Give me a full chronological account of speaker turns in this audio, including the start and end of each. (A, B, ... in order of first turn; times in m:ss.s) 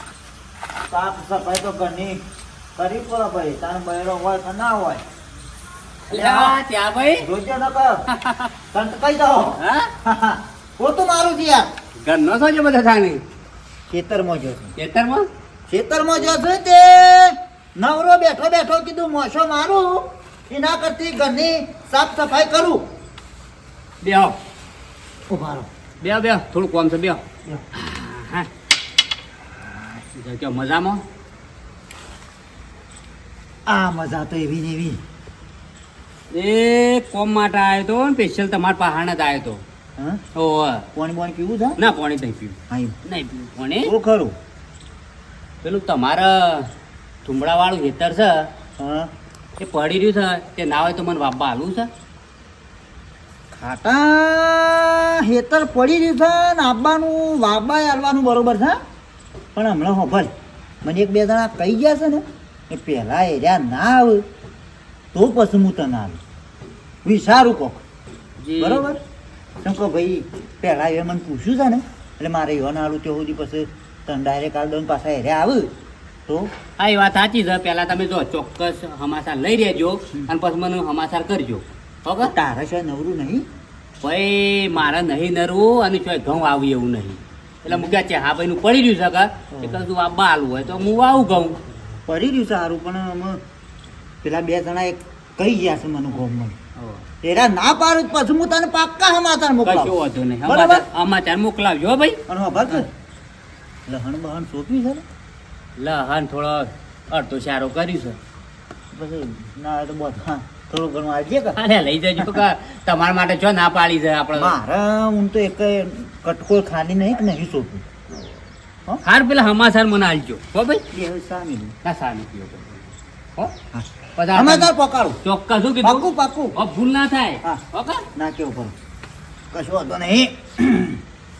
0:00.9-0:02.2 A
0:02.8-0:05.0 A
0:06.1-0:07.3 B
0:06.1-0:06.6 A
0:07.2-0:08.0 A
0:08.1-0:08.5 B
0:08.7-0:11.7 A
0:09.6-0:09.9 B
0:12.0-0:13.2 B
0:13.9-0:14.8 A
0:14.8-0:15.3 B
0:15.7-0:22.8 A
0:24.0-0:24.4 B
0:25.3-0:25.7 A
0:26.0-0:27.2 B
0:27.8-0:28.5 B
0:30.2-0:31.0 B
0:33.7-0:35.0 A
0:36.3-0:39.6 B
0:40.4-0:40.8 B
0:40.9-0:41.8 A
0:41.8-0:43.9 B
0:42.7-0:43.0 A
0:43.8-0:44.4 A
0:45.6-0:46.7 B
0:47.2-0:48.5 B
0:48.8-0:49.1 A
0:49.6-0:51.9 B
0:53.5-0:58.8 A
0:59.6-1:00.3 A
1:00.8-1:04.2 A
1:05.1-1:06.2 A
1:07.0-1:07.8 A
1:08.4-1:08.8 B
1:08.6-1:09.0 A
1:09.6-1:15.7 A
1:16.3-1:16.5 A
1:16.8-1:22.3 B
1:22.2-1:23.5 A
1:24.0-1:31.6 B
1:27.7-1:28.0 A
1:29.5-1:29.8 A
1:32.1-1:33.4 A
1:34.2-1:36.6 A
1:36.8-1:37.0 B
1:37.2-1:40.8 A
1:39.6-1:42.2 B
1:42.3-1:42.9 A
1:43.9-1:45.0 A
1:45.8-1:48.2 B
1:48.9-1:51.6 A
1:51.6-1:54.6 B
1:54.4-1:57.9 A
1:59.0-2:00.8 B
2:00.9-2:01.8 A
2:01.8-2:02.8 B
2:03.7-2:05.2 A
2:04.2-2:04.7 B
2:05.2-2:08.0 B
2:05.8-2:06.6 A
2:08.2-2:08.8 A
2:09.5-2:11.0 A